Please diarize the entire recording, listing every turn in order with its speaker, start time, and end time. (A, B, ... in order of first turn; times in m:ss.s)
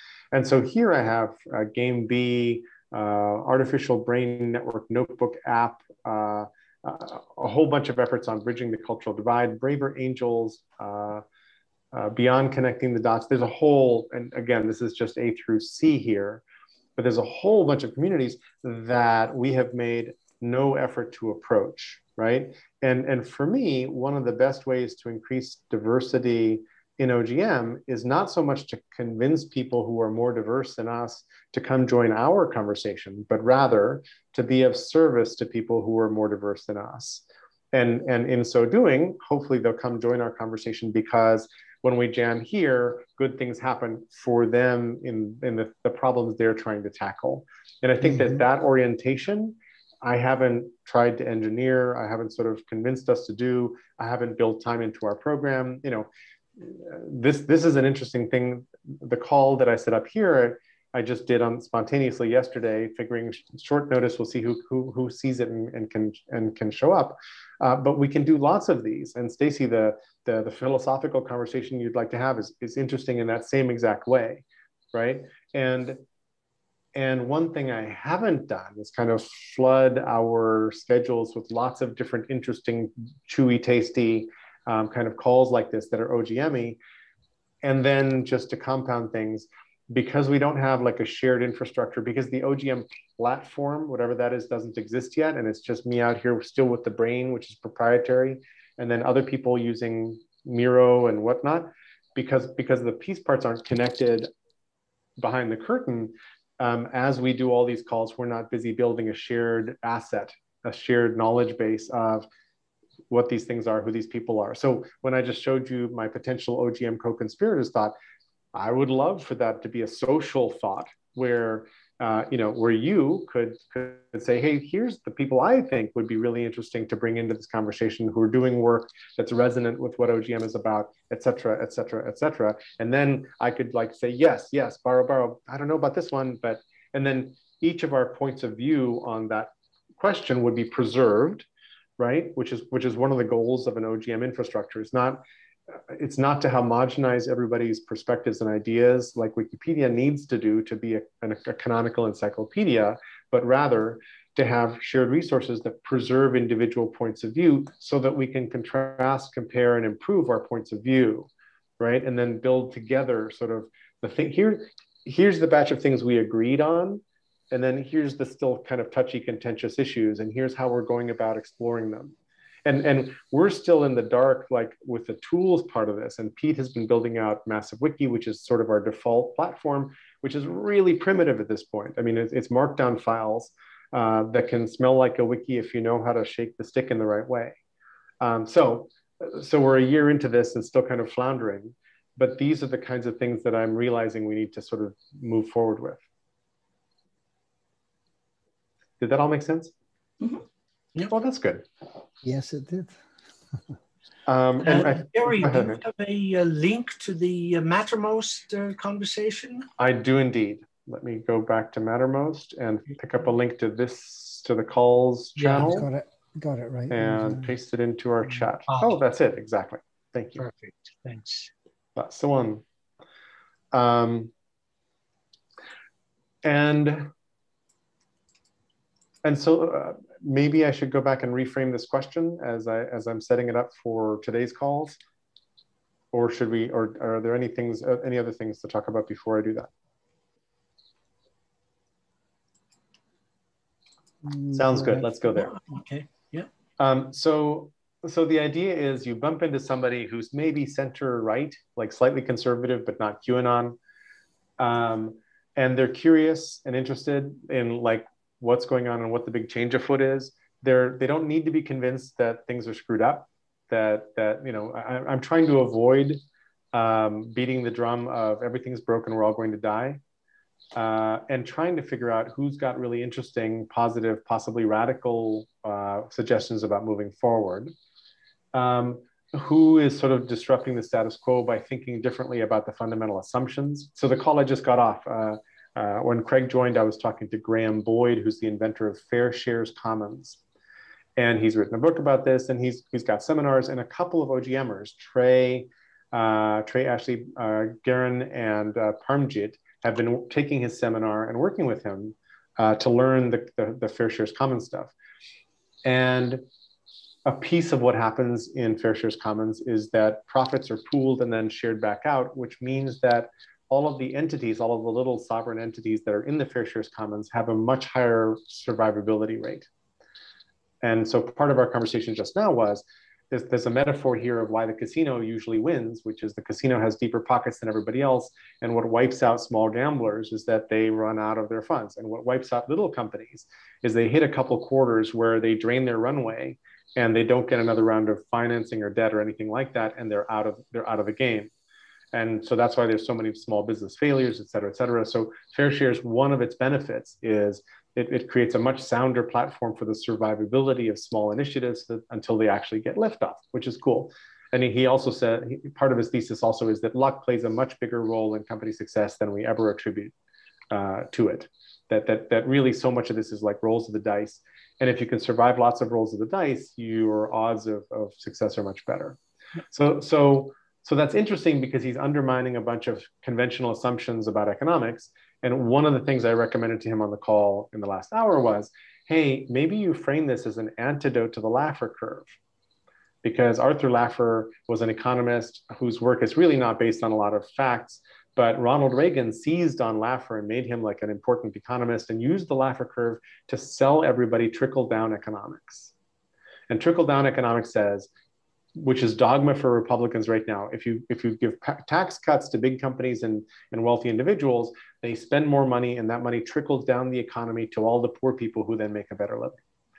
0:00.3-0:11.2 A
0:11.9-0:16.4 A
0:17.0-1:16.0 A
0:48.0-0:48.4 B
1:16.9-1:26.8 A
1:27.6-1:44.3 A
1:45.2-1:52.3 A
1:53.1-1:57.9 A
1:58.5-2:21.4 A
2:22.0-2:25.2 A
2:25.9-3:07.6 A
3:08.2-3:16.0 A
3:19.0-3:19.7 A
3:21.1-3:21.6 A
3:22.2-3:23.0 B
3:24.2-3:25.8 A
3:24.6-3:29.7 C
3:29.8-3:35.9 A
3:35.4-3:35.7 C
3:35.6-3:37.5 B
3:36.9-3:40.4 A
3:38.7-3:39.0 C
3:40.4-3:41.5 C
3:42.0-3:42.6 A
3:43.7-3:44.3 A
3:46.4-3:47.1 A
3:49.2-3:55.0 A
3:56.1-3:59.7 A
4:04.2-4:05.1 B
4:04.5-4:05.6 A
4:05.2-4:06.5 C
4:06.8-4:13.8 A
4:14.6-4:26.2 A
4:26.7-4:30.0 A
4:30.7-4:37.7 A
4:38.5-4:50.4 A
4:51.2-5:04.9 A
5:05.8-5:06.4 A
5:07.2-5:19.7 A
5:20.8-5:41.5 A
5:42.1-6:00.1 A
6:00.7-6:09.2 A
6:09.7-6:22.3 A
6:23.2-6:35.9 A
6:36.7-6:38.1 A
6:38.8-6:49.6 A